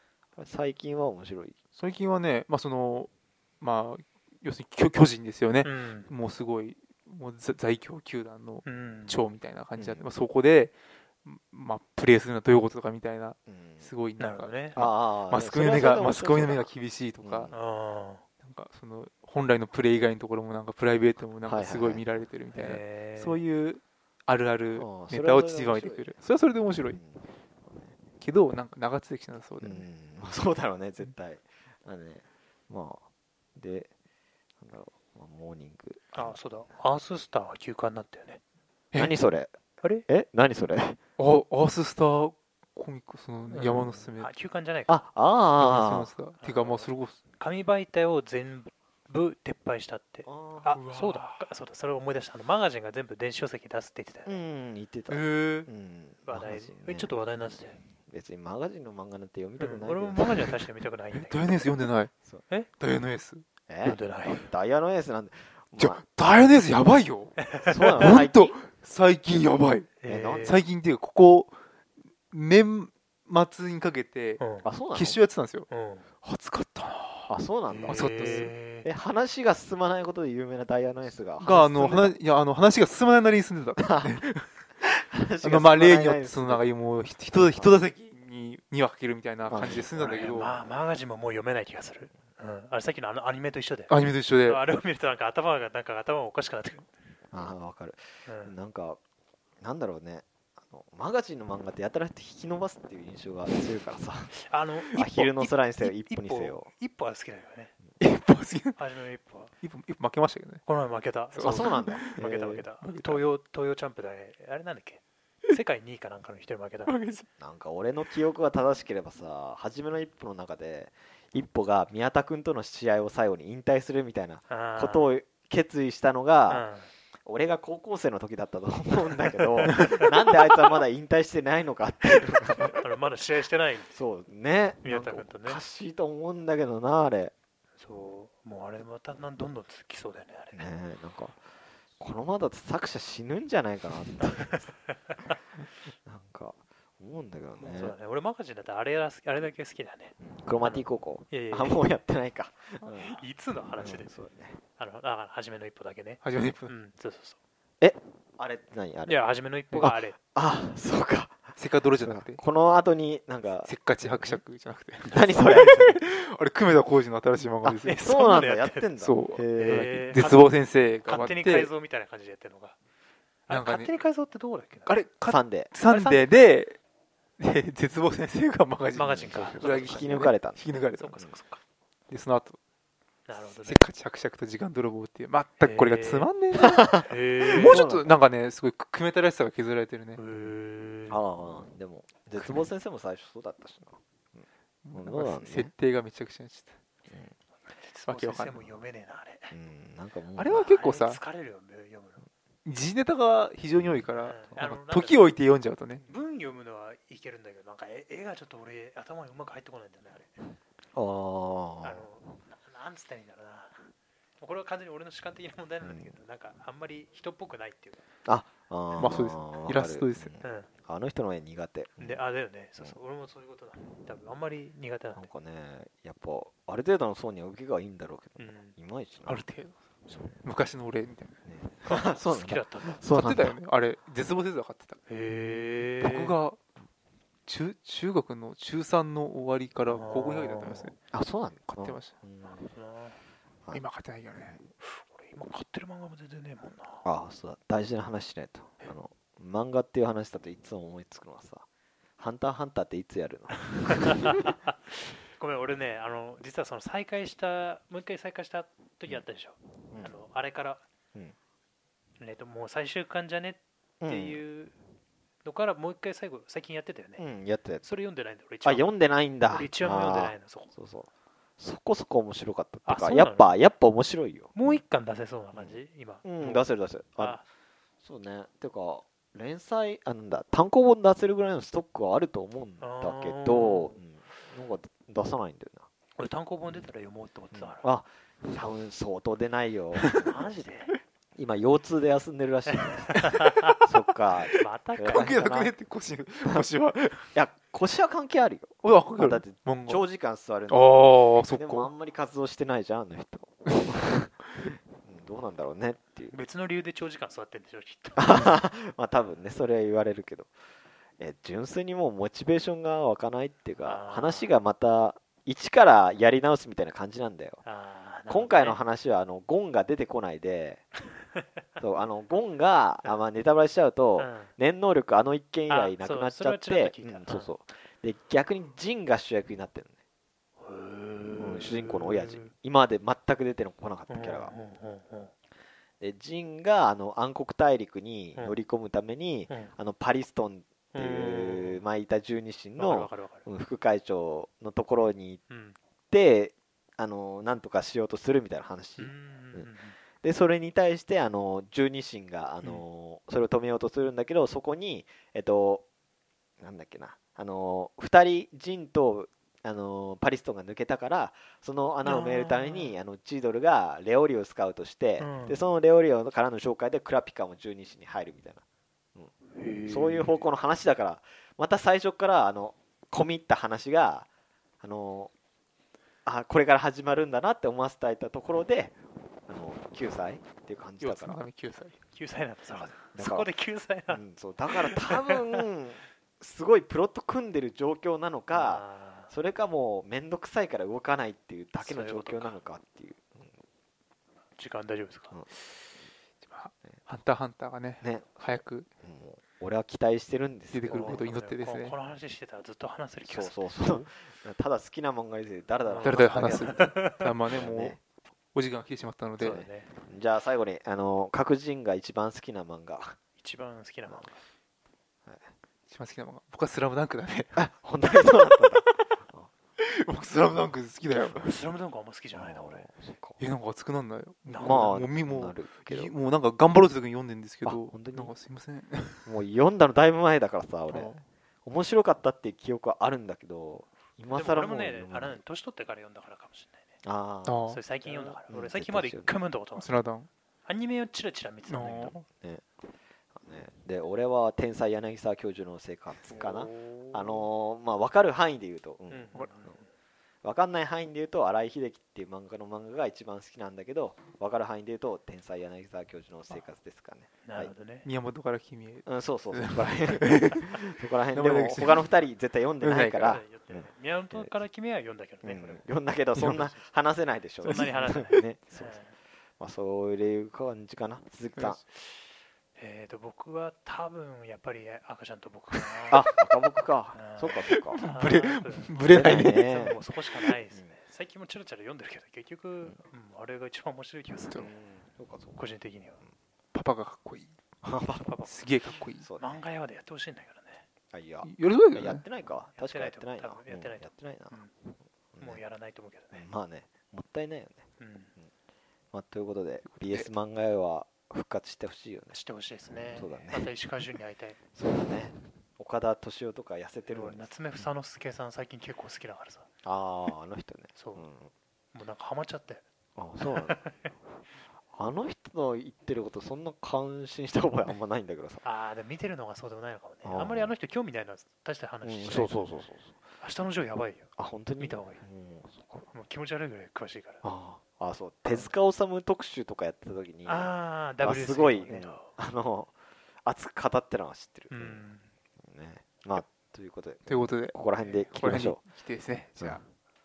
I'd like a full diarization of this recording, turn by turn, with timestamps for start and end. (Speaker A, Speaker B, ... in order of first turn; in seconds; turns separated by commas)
Speaker A: 0.4-1.6, Speaker B: 1.8-17.5, Speaker C: 5.6-6.1, Speaker C: 8.7-9.2, Speaker A: 9.8-10.1, Speaker A: 13.5-13.9, Speaker C: 14.2-14.8, Speaker A: 14.8-17.6, Speaker C: 17.5-18.2, Speaker B: 18.4-27.0, Speaker A: 21.4-22.1, Speaker C: 22.5-23.4, Speaker A: 24.8-26.1, Speaker A: 26.9-27.9, Speaker B: 28.2-29.9, Speaker A: 29.6-33.0, Speaker A: 33.5-33.9, Speaker A: 34.6-36.4, Speaker C: 36.1-38.4, Speaker A: 39.0-39.6, Speaker C: 39.8-40.1, Speaker A: 40.1-41.0, Speaker B: 41.2-44.3, Speaker C: 43.5-45.0, Speaker A: 44.9-46.1, Speaker B: 45.6-47.2, Speaker C: 46.3-54.4, Speaker A: 50.2-50.8, Speaker B: 50.7-51.5, Speaker A: 54.2-57.1, Speaker B: 55.1-55.7, Speaker C: 56.3-57.8, Speaker A: 58.1-60.5, Speaker C: 59.6-61.9, Speaker B: 61.1-62.1, Speaker B: 62.8-63.4, Speaker A: 63.7-66.0, Speaker C: 63.8-64.5, Speaker B: 65.8-67.4, Speaker C: 67.4-68.0, Speaker A: 67.7-68.6, Speaker B: 68.0-69.9, Speaker C: 70.0-70.6, Speaker A: 70.0-70.6, Speaker B: 70.4-71.5, Speaker B: 72.3-75.7, Speaker C: 74.4-74.7, Speaker A: 74.6-75.2, Speaker C: 75.7-76.1, Speaker B: 76.2-77.3, Speaker A: 77.3-82.2, Speaker C: 77.7-78.9, Speaker B: 77.9-78.5, Speaker B: 81.4-84.5, Speaker A: 83.8-84.2, Speaker A: 84.8-86.7, Speaker B: 85.4-90.6, Speaker A: 89.5-89.9, Speaker C: 89.5-96.9, Speaker B: 93.9-94.6, Speaker A: 97.3-99.0, Speaker C: 98.2-98.5, Speaker A: 99.6-106.7, Speaker C: 104.5-107.7, Speaker B: 108.0-108.8, Speaker C: 108.8-109.5, Speaker B: 109.6-110.6, Speaker C: 110.7-117.0, Speaker B: 111.3-112.2, Speaker A: 111.4-112.7, Speaker B: 112.8-113.2, Speaker B: 116.9-117.3, Speaker A: 117.4-126.7, Speaker C: 124.5-125.1, Speaker C: 126.5-126.9, Speaker A: 127.2-132.8, Speaker C: 129.7-130.0, Speaker C: 132.7-134.0, Speaker A: 133.9-137.3, Speaker C: 134.8-135.6, Speaker C: 137.8-140.7, Speaker A: 140.5-141.4, Speaker A: 142.0-144.7, Speaker A: 146.1-148.0, Speaker C: 147.6-151.8, Speaker A: 150.2-153.2, Speaker C: 152.8-154.2, Speaker A: 153.8-154.6, Speaker C: 154.8-157.4, Speaker B: 156.2-156.7, Speaker A: 157.8-159.2, Speaker C: 159.1-160.2, Speaker A: 159.7-161.4, Speaker B: 161.6-162.4, Speaker A: 162.0-164.4, Speaker B: 163.7-168.1, Speaker C: 165.1-165.9, Speaker A: 165.1-165.9, Speaker A: 167.6-170.2, Speaker C: 167.8-168.9, Speaker B: 169.0-171.7, Speaker C: 169.5-172.8, Speaker C: 173.5-175.0, Speaker B: 173.5-173.9, Speaker B: 174.9-176.8, Speaker A: 175.3-175.7, Speaker C: 175.8-176.3, Speaker B: 177.4-181.2, Speaker C: 178.9-180.2, Speaker A: 179.1-180.6, Speaker C: 180.9-181.6, Speaker B: 182.1-182.6, Speaker C: 183.3-183.8, Speaker B: 183.6-187.0, Speaker C: 185.6-186.3, Speaker A: 186.6-188.2, Speaker C: 187.1-187.8, Speaker B: 187.5-190.2, Speaker C: 190.2-191.2, Speaker A: 191.1-195.7, Speaker B: 192.3-192.7, Speaker B: 194.8-196.7, Speaker C: 197.8-199.6, Speaker B: 198.1-198.6, Speaker A: 199.5-200.7, Speaker B: 200.3-201.2, Speaker C: 200.5-202.3, Speaker B: 202.7-206.0, Speaker A: 203.8-204.5, Speaker C: 204.2-205.4, Speaker C: 206.1-210.6, Speaker A: 210.9-212.1, Speaker C: 211.8-218.0, Speaker A: 215.8-216.1, Speaker A: 218.3-222.2, Speaker B: 219.0-220.3, Speaker C: 220.4-220.7, Speaker C: 222.0-225.3, Speaker A: 225.2-229.4, Speaker C: 228.4-228.8, Speaker B: 229.3-229.8, Speaker A: 230.1-230.4, Speaker B: 230.4-231.3, Speaker A: 231.4-233.6, Speaker C: 231.9-233.0, Speaker B: 233.1-235.0, Speaker C: 235.1-236.4, Speaker B: 236.0-236.6, Speaker B: 237.5-240.9, Speaker C: 239.9-240.9, Speaker A: 241.1-242.7, Speaker B: 241.7-242.1, Speaker C: 242.6-243.2, Speaker B: 243.7-244.6, Speaker C: 244.8-247.1, Speaker A: 247.1-251.7, Speaker A: 252.2-254.3, Speaker C: 253.7-260.8, Speaker C: 262.2-264.7, Speaker A: 264.0-264.4, Speaker C: 265.4-267.2, Speaker A: 267.2-267.9, Speaker C: 267.8-268.9, Speaker A: 268.6-274.8, Speaker C: 269.5-270.7, Speaker C: 272.9-273.6, Speaker C: 274.5-277.4, Speaker A: 275.5-277.4, Speaker A: 278.0-285.9, Speaker C: 282.8-283.9, Speaker C: 286.2-287.8, Speaker A: 287.5-290.2, Speaker C: 290.1-291.0, Speaker A: 291.4-295.8, Speaker C: 292.8-293.7, Speaker C: 294.5-295.3, Speaker B: 295.1-297.3, Speaker A: 297.3-306.4, Speaker B: 298.8-300.0, Speaker B: 300.7-301.9, Speaker C: 306.3-308.6, Speaker A: 308.2-310.5, Speaker A: 311.2-317.6, Speaker C: 313.8-314.5, Speaker C: 317.6-318.8, Speaker A: 318.3-320.8, Speaker A: 321.8-329.9, Speaker C: 324.2-324.5, Speaker C: 325.7-327.5, Speaker C: 330.6-332.5, Speaker A: 331.4-334.5, Speaker C: 334.1-335.3, Speaker A: 336.0-345.4, Speaker C: 339.5-339.7, Speaker C: 340.9-341.8, Speaker C: 342.8-343.5, Speaker C: 345.5-345.8, Speaker A: 346.1-355.9, Speaker C: 349.0-350.0, Speaker A: 356.6-368.6, Speaker C: 362.0-362.9, Speaker C: 365.2-365.6, Speaker C: 369.6-370.4, Speaker A: 369.9-374.3, Speaker A: 374.8-375.3, Speaker A: 376.3-378.9, Speaker A: 379.5-381.4, Speaker B: 381.0-381.9, Speaker C: 382.1-385.6, Speaker A: 383.1-383.5, Speaker A: 384.1-393.5, Speaker C: 388.5-389.3, Speaker C: 391.8-392.6, Speaker C: 394.6-395.4, Speaker B: 396.5-398.9, Speaker A: 398.0-401.3, Speaker B: 400.7-402.0, Speaker C: 400.9-404.1, Speaker A: 403.2-406.9, Speaker C: 405.9-407.6, Speaker B: 406.0-408.0, Speaker A: 407.6-408.0, Speaker B: 408.5-409.6, Speaker C: 409.4-409.9, Speaker A: 409.4-413.2, Speaker C: 413.4-414.4, Speaker B: 415.9-417.7, Speaker A: 417.6-419.5, Speaker B: 418.3-419.0, Speaker B: 419.8-421.5, Speaker C: 421.3-422.9, Speaker A: 422.3-423.4, Speaker B: 423.4-429.3, Speaker C: 424.5-424.9, Speaker A: 424.6-426.1, Speaker A: 427.6-428.3, Speaker A: 429.3-435.4, Speaker B: 430.9-431.2, Speaker C: 434.3-436.8, Speaker A: 437.0-439.4, Speaker B: 437.4-437.8, Speaker C: 437.7-439.9, Speaker B: 439.8-440.3, Speaker C: 440.7-442.2, Speaker B: 441.7-442.2, Speaker A: 442.4-442.6, Speaker A: 443.4-449.7, Speaker C: 446.2-447.5, Speaker C: 449.1-449.9, Speaker A: 450.4-457.7, Speaker C: 457.4-458.1, Speaker B: 458.0-462.1, Speaker A: 459.1-464.6, Speaker B: 462.8-463.4, Speaker C: 463.2-465.9, Speaker A: 465.4-469.0, Speaker B: 466.4-466.7, Speaker C: 467.6-469.2, Speaker B: 467.6-468.2, Speaker A: 469.6-471.8, Speaker C: 472.8-476.2, Speaker A: 476.1-478.0, Speaker C: 477.1-484.7, Speaker B: 477.8-479.7, Speaker A: 479.1-480.0, Speaker A: 480.7-481.0, Speaker A: 484.6-485.6, Speaker C: 485.5-486.2, Speaker B: 486.7-487.5, Speaker A: 487.8-488.4, Speaker C: 488.2-488.6, Speaker B: 488.4-489.2, Speaker A: 489.2-489.6, Speaker C: 489.4-490.9, Speaker A: 491.1-494.6, Speaker B: 491.4-492.2, Speaker C: 492.8-494.7, Speaker A: 495.3-495.6, Speaker C: 495.4-496.5, Speaker A: 496.3-497.9, Speaker C: 498.0-498.3, Speaker A: 499.1-502.3, Speaker B: 499.9-500.3, Speaker C: 502.3-504.6, Speaker A: 502.9-503.7, Speaker A: 504.8-507.5, Speaker C: 507.1-509.7, Speaker A: 509.8-511.5, Speaker C: 510.9-511.2, Speaker C: 511.9-512.8, Speaker A: 513.2-513.8, Speaker C: 513.5-514.1, Speaker A: 514.9-518.6, Speaker C: 518.6-522.6, Speaker A: 520.2-520.7, Speaker A: 522.0-523.1, Speaker C: 523.4-525.2, Speaker A: 524.4-526.1, Speaker C: 526.1-527.4, Speaker A: 527.4-532.9, Speaker C: 528.5-528.7, Speaker C: 530.5-532.3, Speaker A: 533.5-535.1, Speaker C: 534.7-535.3, Speaker A: 535.6-538.8, Speaker B: 537.3-537.8, Speaker C: 538.0-538.3, Speaker B: 538.4-539.8